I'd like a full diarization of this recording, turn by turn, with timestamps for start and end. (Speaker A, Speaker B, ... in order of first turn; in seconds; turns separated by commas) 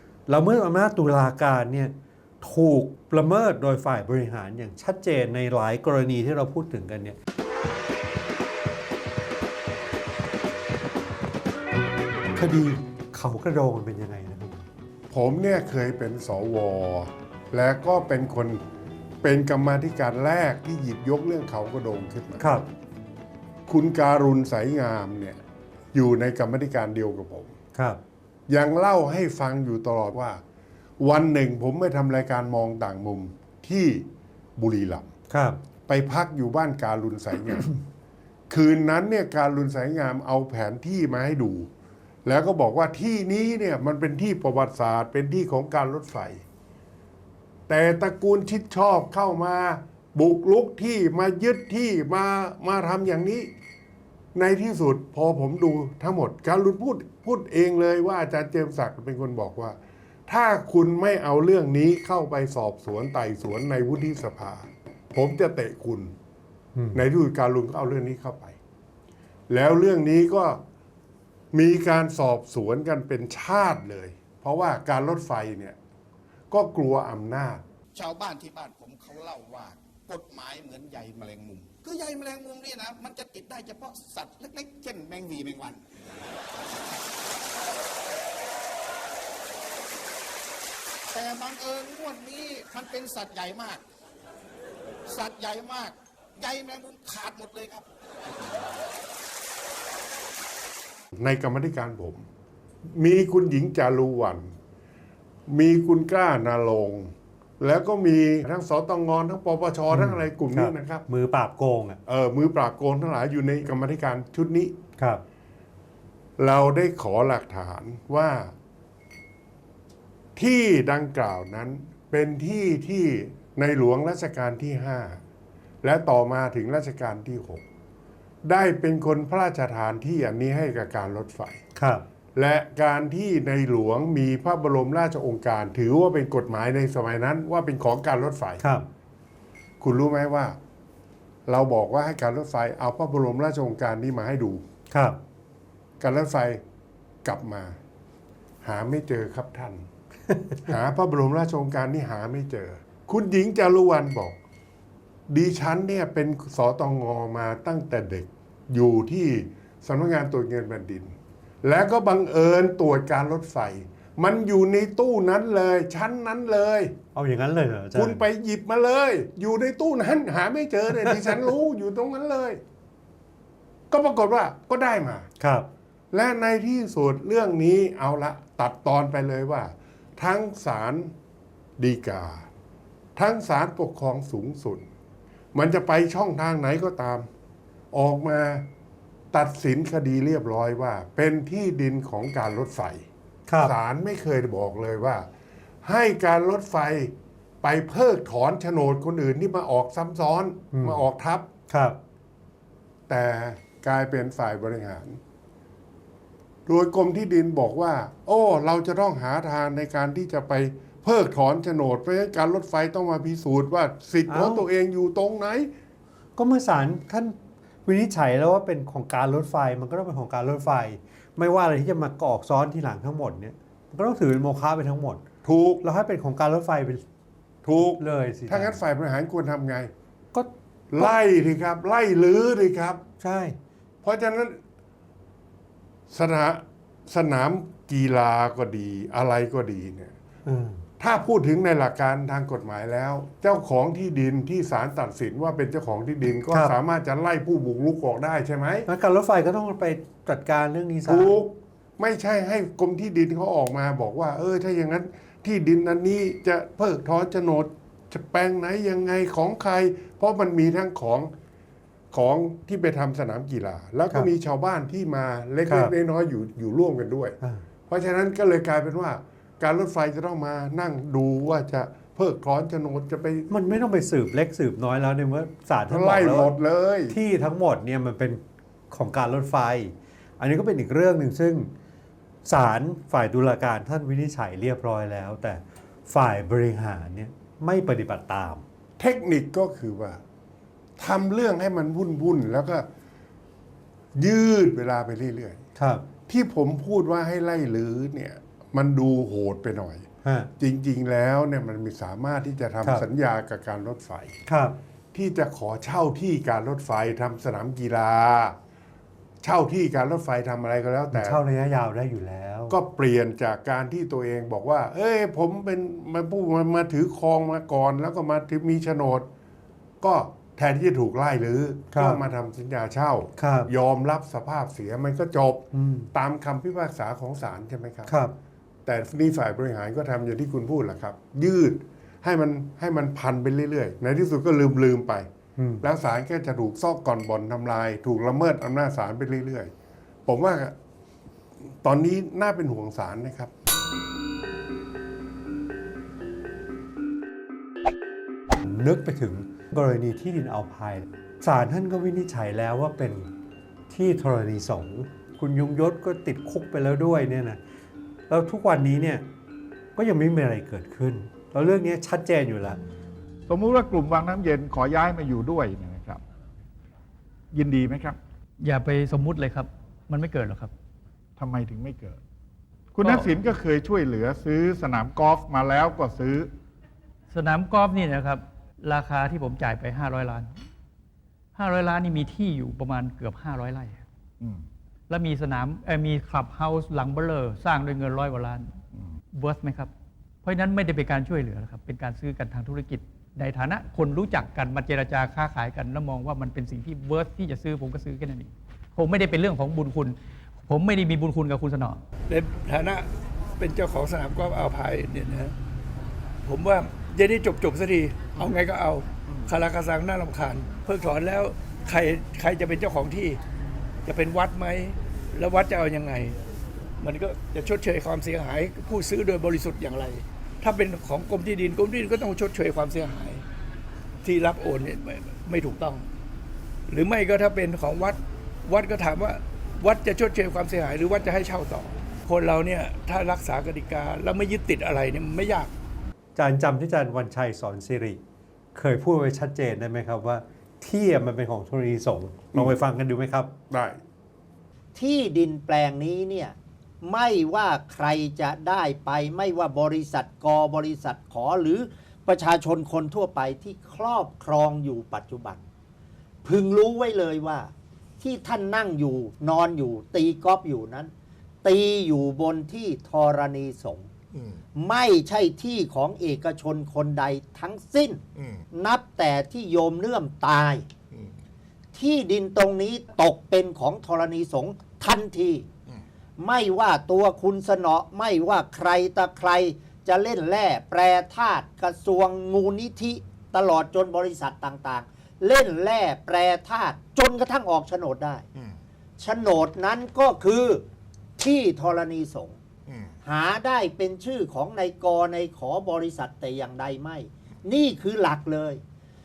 Speaker A: 0.3-7.2, Speaker A: 12.3-14.6, Speaker B: 15.1-18.6, Speaker B: 19.2-22.6, Speaker A: 22.4-22.7, Speaker B: 23.7-25.4, Speaker B: 25.9-27.5, Speaker A: 27.7-28.0, Speaker B: 28.5-30.4, Speaker B: 31.0-35.1, Speaker A: 35.3-35.6, Speaker B: 35.9-37.8, Speaker B: 38.5-41.7, Speaker B: 42.2-46.4, Speaker B: 47.7-53.5, Speaker B: 54.3-59.8, Speaker B: 60.3-66.1, Speaker B: 66.9-68.5, Speaker B: 69.5-70.6, Speaker B: 71.5-75.8, Speaker B: 76.5-77.6, Speaker C: 77.9-85.8, Speaker C: 91.1-93.8, Speaker C: 95.1-98.8, Speaker B: 101.2-102.2, Speaker B: 102.8-104.5, Speaker B: 105.5-111.0, Speaker A: 109.9-112.0, Speaker B: 112.0-114.8, Speaker B: 116.4-118.5, Speaker B: 120.3-125.2, Speaker B: 125.8-127.6, Speaker B: 128.4-131.6, Speaker A: 131.8-132.1, Speaker B: 132.3-138.6, Speaker A: 138.6-138.9, Speaker B: 139.8-140.6, Speaker B: 141.5-144.6, Speaker A: 144.9-145.2, Speaker B: 146.0-146.6, Speaker B: 147.2-147.8, Speaker B: 148.6-149.8, Speaker A: 150.3-150.6, Speaker B: 150.7-154.4, Speaker B: 155.3-166.9, Speaker A: 167.1-168.2, Speaker B: 167.9-172.6, Speaker B: 173.9-175.3, Speaker A: 175.4-175.7, Speaker B: 176.1-181.1, Speaker B: 181.8-182.5, Speaker B: 183.2-184.9, Speaker B: 185.5-187.3, Speaker B: 187.9-188.7, Speaker B: 189.3-193.0, Speaker A: 193.5-193.7, Speaker B: 193.6-195.3, Speaker B: 195.8-201.5, Speaker A: 200.7-201.0, Speaker A: 201.7-202.0, Speaker B: 203.1-205.2, Speaker B: 206.7-215.7, Speaker A: 214.3-214.6, Speaker A: 216.4-225.2, Speaker B: 225.4-225.8, Speaker A: 225.8-227.0, Speaker B: 227.6-229.9, Speaker A: 227.8-228.8, Speaker A: 230.3-231.1, Speaker B: 230.9-233.0, Speaker A: 233.2-233.6, Speaker B: 234.0-234.6, Speaker B: 236.1-240.1, Speaker A: 240.4-240.8, Speaker B: 241.0-248.9, Speaker A: 248.9-251.3, Speaker B: 251.1-261.3, Speaker B: 262.1-267.4, Speaker A: 265.7-265.9, Speaker B: 267.9-273.5, Speaker A: 273.5-276.5, Speaker B: 275.9-277.1, Speaker A: 277.1-281.7, Speaker A: 282.4-288.6, Speaker B: 289.0-290.2, Speaker B: 291.0-292.9, Speaker B: 294.1-295.6, Speaker A: 295.8-296.1, Speaker B: 296.3-300.1, Speaker A: 300.2-300.5, Speaker B: 300.6-304.4, Speaker A: 304.5-304.8, Speaker B: 305.1-308.6, Speaker B: 309.4-311.4, Speaker A: 311.1-312.8, Speaker B: 312.7-319.3, Speaker B: 320.0-328.1, Speaker A: 321.9-322.2, Speaker A: 323.4-323.7, Speaker A: 325.7-326.1, Speaker A: 328.1-328.3, Speaker B: 328.8-335.3, Speaker A: 335.6-335.8, Speaker B: 335.8-339.7, Speaker B: 340.2-340.7, Speaker B: 341.6-343.5, Speaker A: 348.6-353.3, Speaker A: 353.9-357.6, Speaker A: 358.3-359.2, Speaker A: 359.9-362.8, Speaker D: 363.5-366.2, Speaker D: 367.5-368.2, Speaker E: 368.6-370.7, Speaker D: 371.4-372.2, Speaker D: 372.9-376.5, Speaker E: 373.0-373.3, Speaker E: 377.3-380.6, Speaker E: 381.6-384.0, Speaker E: 385.1-388.8, Speaker E: 389.3-389.9, Speaker E: 390.4-402.0, Speaker F: 402.3-405.5, Speaker F: 406.4-413.4, Speaker F: 414.0-416.4, Speaker F: 417.0-423.4, Speaker F: 424.2-426.1, Speaker F: 426.9-435.7, Speaker A: 436.4-438.2, Speaker A: 438.7-443.5, Speaker B: 443.7-444.0, Speaker G: 444.9-455.6, Speaker G: 456.4-461.1, Speaker G: 461.6-464.1, Speaker D: 464.3-464.6, Speaker G: 464.8-470.9, Speaker D: 468.3-468.6, Speaker G: 471.9-475.7, Speaker G: 476.4-488.4, Speaker G: 489.2-490.8, Speaker G: 491.4-492.6, Speaker D: 492.9-493.1, Speaker G: 493.2-498.8